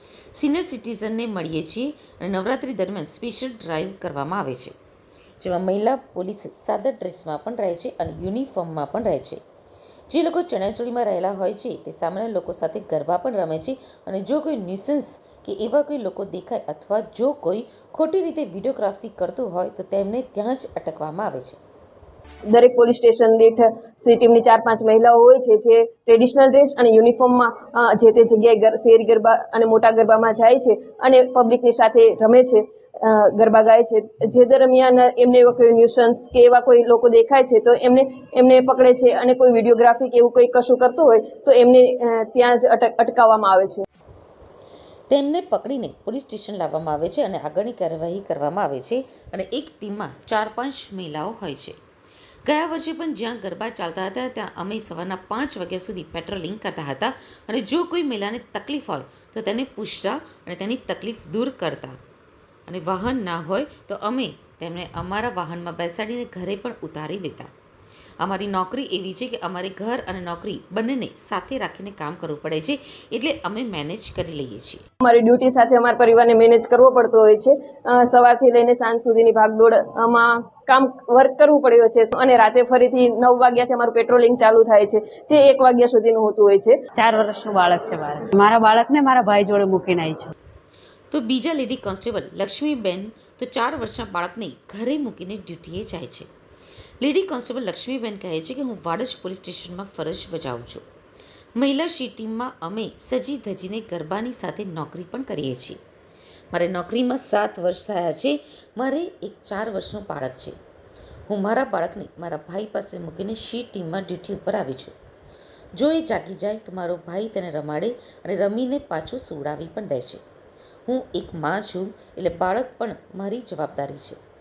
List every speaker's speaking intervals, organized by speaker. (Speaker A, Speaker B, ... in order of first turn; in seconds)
Speaker A: 0.3-4.7, 5.4-9.4, 10.1-21.6, 45.1-51.8, 52.5-62.0, 62.7-67.5, 68.2-74.8, 91.1-96.3, 97.0-100.8, 101.6-105.8, 106.5-110.6, 111.3-115.0, 115.7-120.2, 120.9-124.2
Speaker B: 22.5-43.8, 75.0-86.8
Speaker C: 87.0-90.3